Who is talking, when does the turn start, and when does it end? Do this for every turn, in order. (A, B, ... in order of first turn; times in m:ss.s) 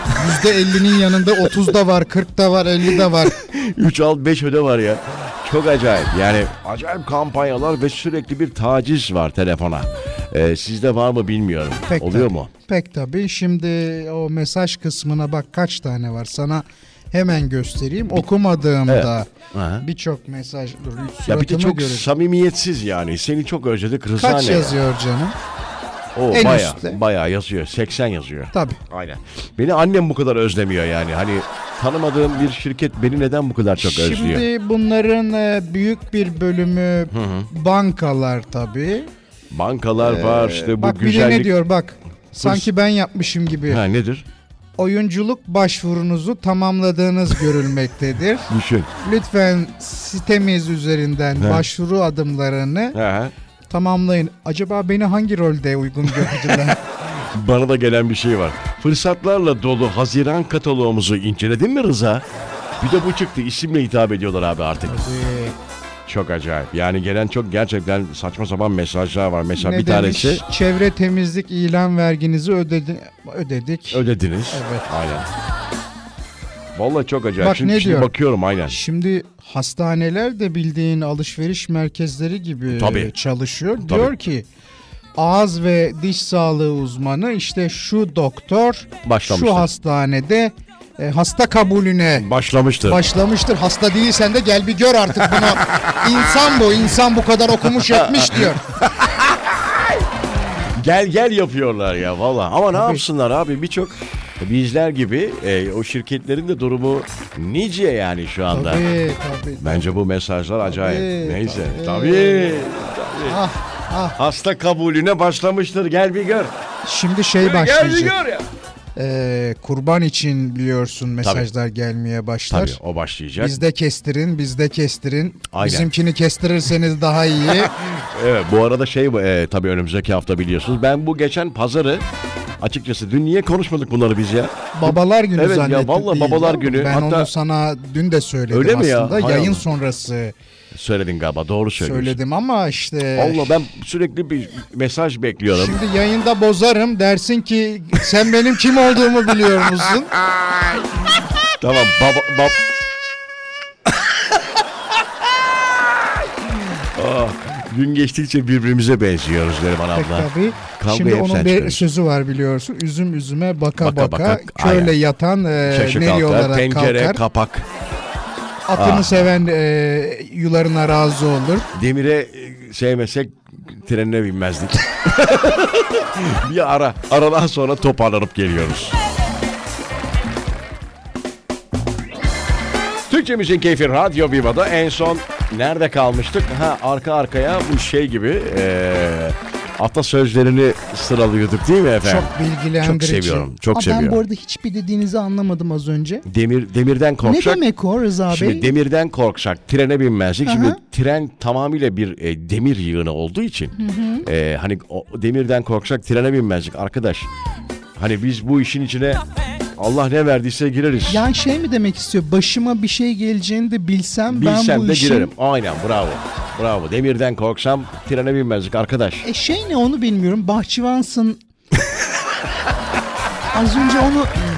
0:00.2-0:03.4 A
0:03.0-0:12.5 B
0:11.9-0:19.3 A
0:18.9-0:19.8 B
0:19.8-0:22.1 A
0:21.3-0:24.8 B
0:24.2-0:25.4 A
0:26.2-0:34.5 B
0:26.3-0:27.0 A
0:28.5-0:28.8 A
0:33.8-0:39.1 A
0:37.1-0:37.5 B
0:39.5-0:41.5 B
0:40.0-0:43.8 A
0:42.4-0:42.7 B
0:43.7-0:44.2 B
0:44.8-0:53.0 A
0:48.5-0:48.9 B
0:51.4-0:51.6 B
0:52.9-0:53.3 B
0:53.7-0:56.8 A
0:56.1-1:02.2 B
1:02.8-1:05.0 B
1:04.9-1:05.6 A
1:06.1-1:10.4 B
1:09.6-1:14.9 A
1:13.9-1:15.3 B
1:16.8-1:18.8 B
1:17.4-1:18.1 A
1:18.7-1:24.5 A
1:22.7-1:23.1 B
1:23.8-1:24.1 B
1:25.2-1:32.3 A
1:29.0-1:29.7 B
1:32.2-1:33.0 B
1:32.8-1:38.6 A
1:35.2-1:36.6 B
1:37.6-1:40.1 B
1:40.6-1:48.8 B
1:42.7-1:43.0 A
1:48.5-1:50.0 A
1:49.6-1:53.4 B
1:50.6-1:52.7 A
1:53.2-1:54.2 A
1:54.2-1:56.5 B
1:56.8-1:58.2 A
1:57.4-1:58.5 B
1:59.0-2:02.8 A
2:01.2-2:01.5 B
2:02.5-2:03.6 B
2:03.4-2:07.7 A
2:05.5-2:05.9 B
2:07.4-2:12.1 B
2:12.6-2:17.3 B
2:14.7-2:20.3 A
2:18.5-2:19.6 B
2:20.7-2:22.2 B
2:21.8-2:23.5 A
2:23.2-2:25.8 B
2:25.5-2:30.1 A
2:29.4-2:32.6 B
2:35.6-2:41.9 B
2:39.9-2:47.2 A
2:43.8-2:45.0 B
2:45.6-2:47.7 B
2:48.7-2:51.7 A
2:48.8-2:49.3 B
2:51.7-2:59.0 B
3:03.1-3:14.2 B
3:12.0-3:13.5 A
3:13.7-3:16.2 C
3:16.2-3:17.6 B
3:17.2-3:18.7 C
3:18.3-3:27.3 B
3:20.5-3:20.8 C
3:23.8-3:24.2 C
3:28.0-3:29.2 B
3:29.8-3:31.3 B
3:31.1-3:35.3 C
3:34.3-3:39.2 B
3:39.2-3:41.4 C
3:43.5-3:44.5 C